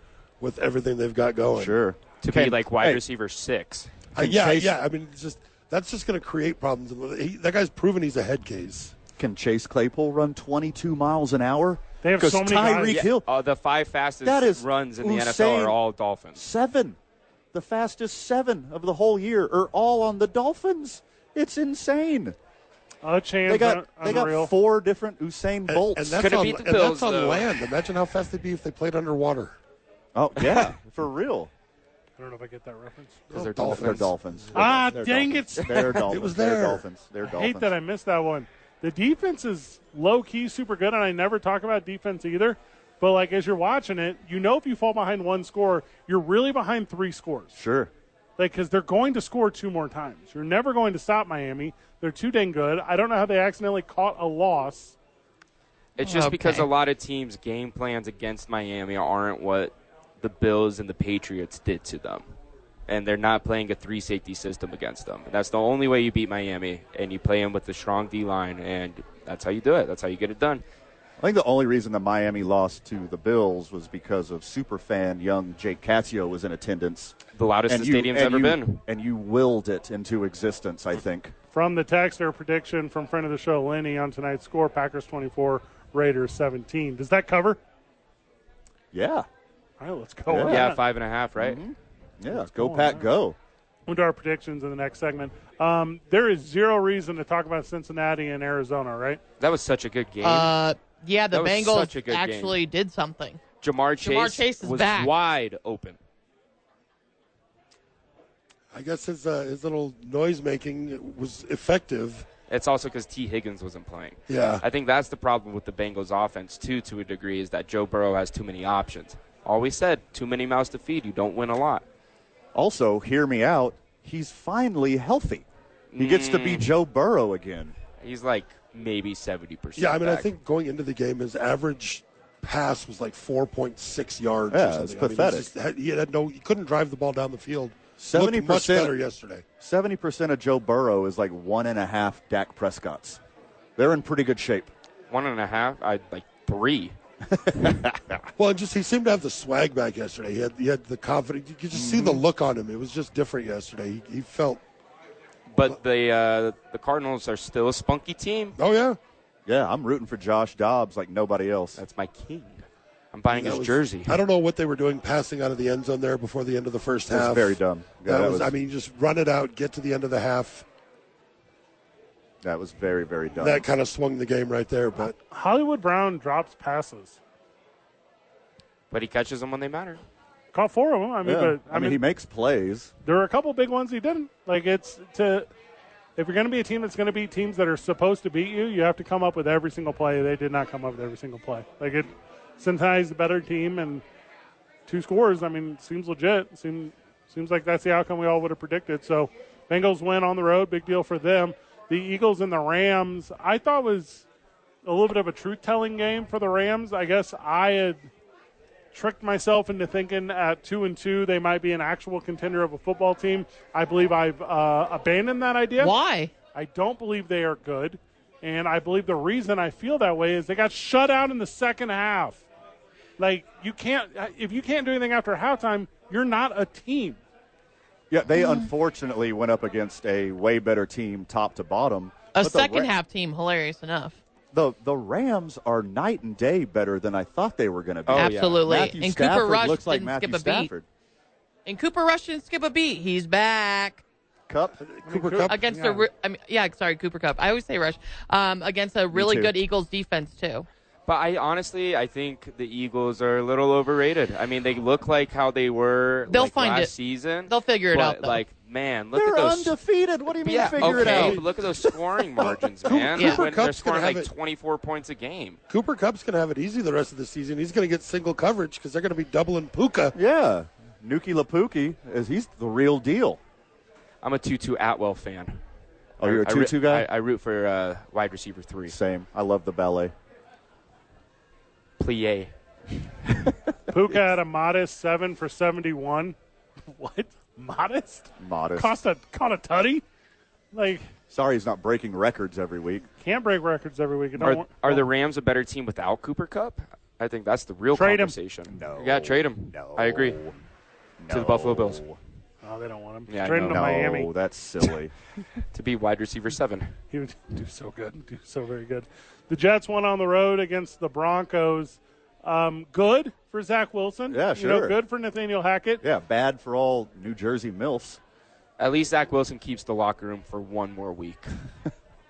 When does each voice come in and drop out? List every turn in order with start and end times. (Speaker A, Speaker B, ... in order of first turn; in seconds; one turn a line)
Speaker A: 0.4-1.8
Speaker B: 1.5-3.0
Speaker C: 2.2-3.9
Speaker A: 4.1-8.9
Speaker B: 4.2-4.8
Speaker B: 9.2-13.3
Speaker D: 12.0-13.1
Speaker C: 12.9-16.4
Speaker B: 14.2-15.8
Speaker B: 16.4-17.0
Speaker B: 17.5-22.4
Speaker D: 23.0-24.5
Speaker B: 23.5-26.3
Speaker A: 25.7-29.6
Speaker C: 26.2-27.6
Speaker B: 30.1-31.5
Speaker C: 30.4-30.7
Speaker D: 32.2-33.3
Speaker A: 33.3-34.9
Speaker C: 33.3-34.1
Speaker B: 33.6-37.7
Speaker D: 34.5-35.9
Speaker C: 35.7-36.0
Speaker A: 35.9-36.8
Speaker D: 37.2-47.5
Speaker B: 47.5-47.9
Speaker D: 48.4-55.0
Speaker C: 56.0-62.2
Speaker E: 56.0-56.7
Speaker C: 62.9-70.6
Speaker B: 71.2-77.2
Speaker C: 77.3-78.8
Speaker B: 77.7-81.3
Speaker D: 81.5-87.6
Speaker B: 88.9-89.3
Speaker D: 89.8-90.8
Speaker B: 90.3-90.7
Speaker C: 90.4-91.6
Speaker B: 91.4-93.4
Speaker D: 92.3-93.1
Speaker D: 93.9-99.2
Speaker C: 99.4-100.5
Speaker E: 100.2-103.4
Speaker C: 101.3-102.6
Speaker C: 103.6-106.0
Speaker E: 104.0-105.1
Speaker A: 108.7-112.3
Speaker C: 112.5-121.8
Speaker A: 114.3-114.6
Speaker B: 122.5-125.5
Speaker C: 125.9-126.7
Speaker B: 126.0-127.8
Speaker C: 128.0-130.3
Speaker A: 129.8-139.4
Speaker B: 134.5-135.5
Speaker B: 138.0-138.9
Speaker B: 139.6-143.2
Speaker B: 143.8-144.7
Speaker C: 145.1-146.9
Speaker B: 147.3-148.2
Speaker A: 148.4-154.6
Speaker B: 151.7-152.2
Speaker C: 155.5-158.6
Speaker A: 158.6-159.0
Speaker B: 159.5-161.8
Speaker C: 161.8-164.2
Speaker A: 163.3-170.7
Speaker B: 167.1-168.5
Speaker B: 172.4-173.7
Speaker A: 173.4-175.2
Speaker D: 175.3-177.2
Speaker C: 178.9-180.0
Speaker D: 180.5-182.0
Speaker B: 181.2-182.9
Speaker D: 183.1-185.5
Speaker D: 186.2-194.0
Speaker D: 194.9-204.2
Speaker D: 204.8-208.1
Speaker D: 208.9-215.9
Speaker E: 215.8-216.3
Speaker D: 216.5-222.5
Speaker D: 223.2-227.2
Speaker B: 228.1-232.9
Speaker E: 232.3-234.2
Speaker B: 234.5-240.9
Speaker C: 238.1-238.7
Speaker E: 238.2-240.7
Speaker E: 241.7-244.0
Speaker B: 244.5-244.8
Speaker A: 244.8-245.6
Speaker D: 245.1-246.1
Speaker E: 245.5-250.7
Speaker B: 249.1-249.6
Speaker C: 251.1-259.8
Speaker E: 256.3-256.9
Speaker E: 257.5-258.4
Speaker B: 259.1-261.9
Speaker C: 260.4-265.6
Speaker A: 260.8-261.4
Speaker A: 262.4-264.3
Speaker E: 263.2-263.4
Speaker A: 265.7-270.1
Speaker B: 270.1-273.4
Speaker C: 274.2-275.6
Speaker B: 276.2-277.1
Speaker C: 276.2-278.9
Speaker B: 278.9-280.1
Speaker C: 282.0-282.5
Speaker D: 283.9-290.0
Speaker B: 288.4-288.9
Speaker D: 290.7-291.1
Speaker B: 291.3-293.1
Speaker D: 293.2-295.0
Speaker C: 294.4-300.4
Speaker D: 297.9-298.4
Speaker B: 298.7-300.6
Speaker B: 301.2-302.2
Speaker C: 301.3-302.0
Speaker D: 302.6-304.3
Speaker C: 303.3-303.9
Speaker B: 303.7-305.1
Speaker C: 305.7-306.9
Speaker D: 307.1-316.0
Speaker B: 314.3-315.0
Speaker B: 316.0-318.2
Speaker C: 318.8-321.5